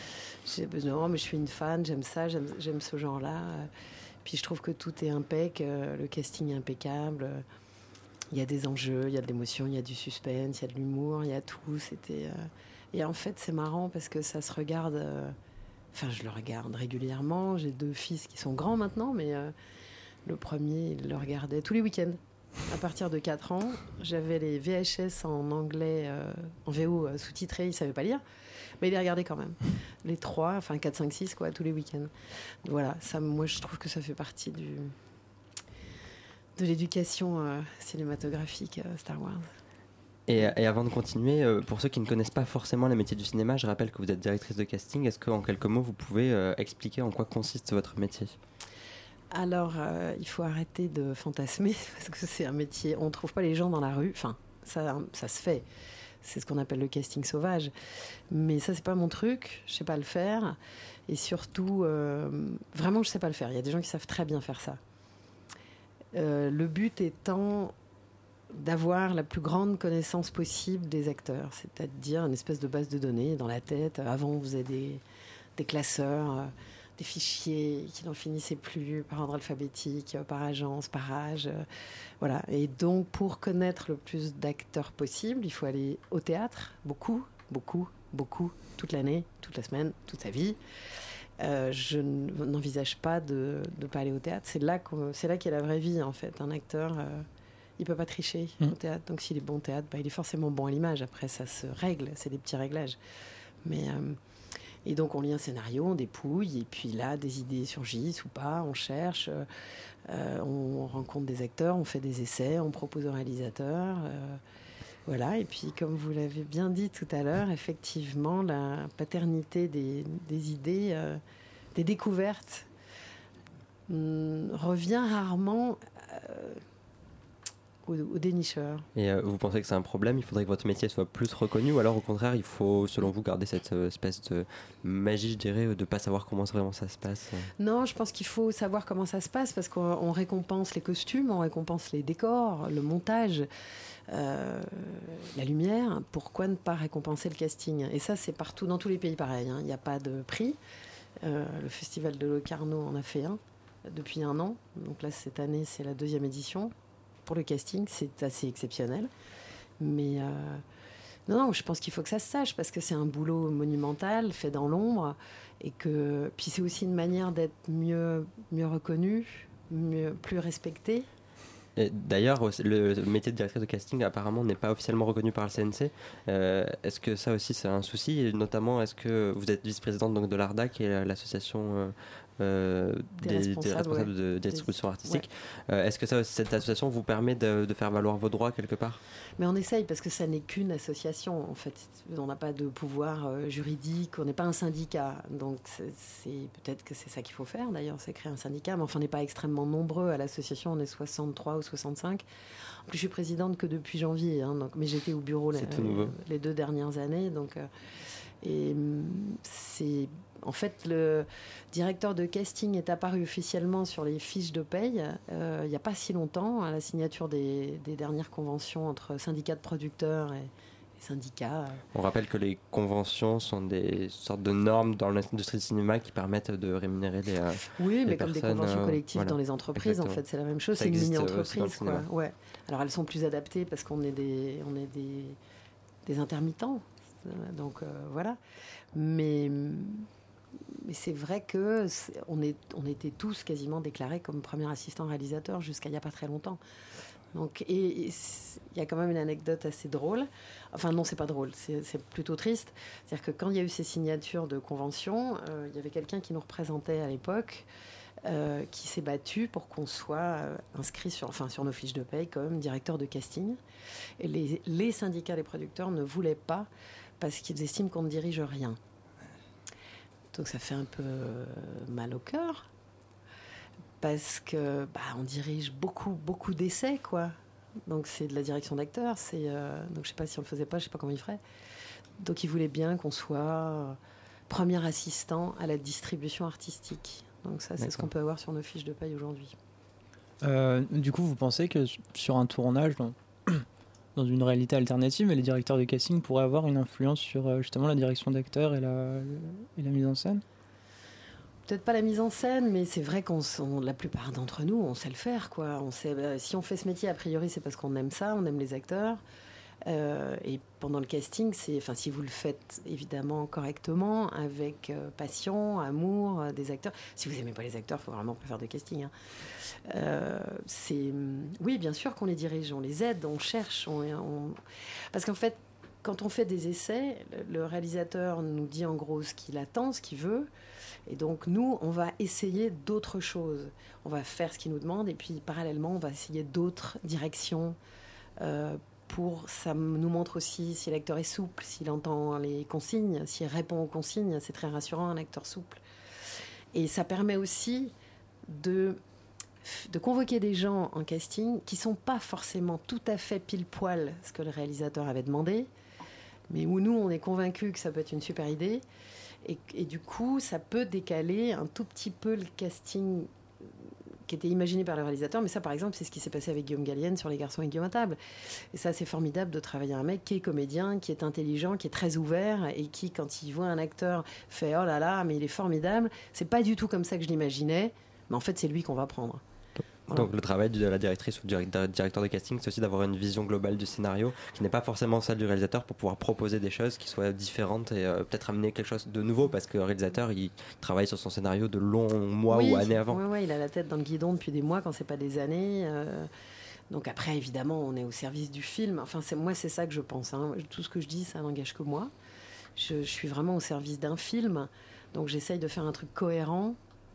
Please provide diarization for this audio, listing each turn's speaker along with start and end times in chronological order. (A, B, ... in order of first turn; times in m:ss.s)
0:00.4-0:03.7 A
0:04.2-0:07.4 A
0:08.3-0:15.4 A
0:15.9-0:19.5 A
0:20.2-0:28.2 A
0:28.8-0:32.1 A
0:32.6-0:34.9 A
0:36.6-0:39.5 A
0:40.3-0:48.4 B
0:49.3-0:55.6 A
0:56.2-0:57.7 A
0:58.3-1:00.6 A
1:01.1-1:04.8 A
1:06.1-1:07.7 A
1:08.5-1:15.0 A
1:15.6-1:21.7 A
1:22.2-1:30.6 A
1:31.4-1:37.3 A
1:37.8-1:43.0 A
1:43.6-1:44.2 A
1:44.8-1:49.4 A
1:50.1-1:54.4 A
1:55.1-2:01.2 A
2:01.8-2:02.7 A
2:03.9-2:06.6 A
2:07.9-2:08.9 A
2:09.0-2:17.5 B
2:17.6-2:23.5 A
2:24.1-2:30.6 A
2:31.2-2:36.7 A
2:37.2-2:39.1 A
2:39.8-2:40.6 A
2:41.3-2:51.1 A
2:51.8-3:09.0 B
3:03.2-3:05.2 A
3:09.4-3:22.2 A
3:22.9-3:27.7 A
3:25.5-3:26.2 B
3:28.4-3:41.8 A
3:41.9-3:50.2 B
3:47.8-3:55.4 A
3:50.8-3:52.1 B
3:56.0-3:58.4 A
3:59.0-4:00.1 A
4:00.8-4:06.6 A
4:07.3-4:17.7 A
4:18.2-4:23.6 A
4:24.2-4:28.8 A
4:30.3-4:32.7 A
4:34.0-4:37.4 A
4:37.9-4:41.4 A
4:42.2-4:44.0 A
4:44.5-4:49.6 A
4:47.8-4:48.1 B
4:50.4-4:53.6 C
4:54.2-5:00.4 C
5:01.7-5:09.2 A
5:09.8-5:19.1 A
5:19.9-5:24.6 A
5:25.1-5:30.5 A
5:31.1-5:37.8 A
5:38.4-5:45.8 A
5:46.7-5:47.9 A
5:48.5-5:49.0 A
5:49.6-5:55.7 A
5:56.5-5:58.8 A
5:59.4-6:03.3 A
6:04.3-6:08.2 A
6:08.7-6:19.4 A
6:20.1-6:33.2 B
6:32.5-6:36.3 A
6:36.9-6:42.1 A
6:42.8-6:46.8 A